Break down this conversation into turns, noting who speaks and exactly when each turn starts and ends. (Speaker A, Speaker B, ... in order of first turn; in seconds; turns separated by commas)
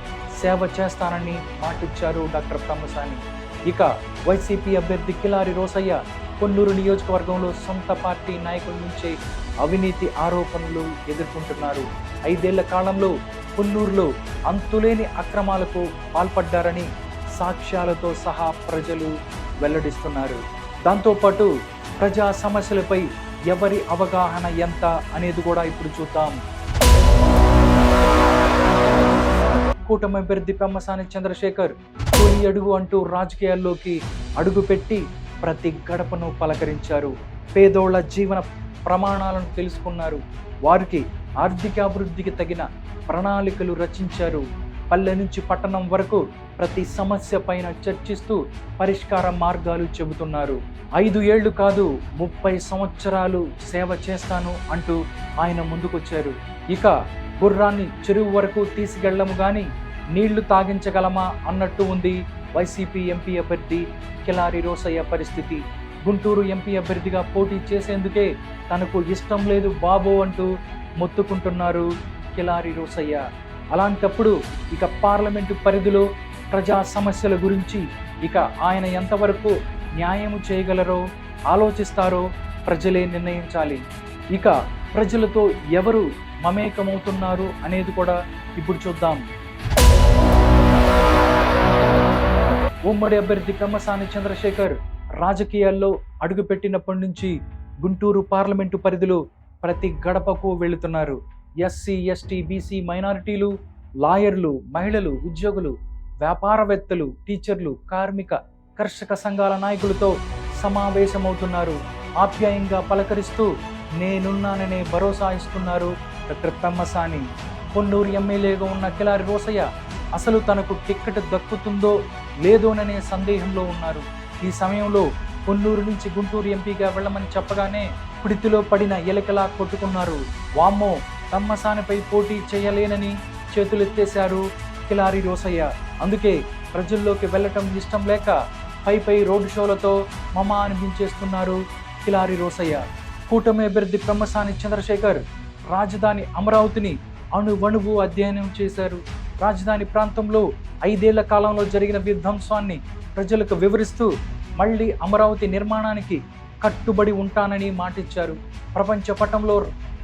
Speaker A: 0.4-26.4, Speaker A: 29.9-70.5, Speaker A: 71.0-73.2, Speaker A: 73.7-83.8, Speaker A: 84.3-89.2, Speaker A: 92.9-97.3, Speaker A: 97.8-159.6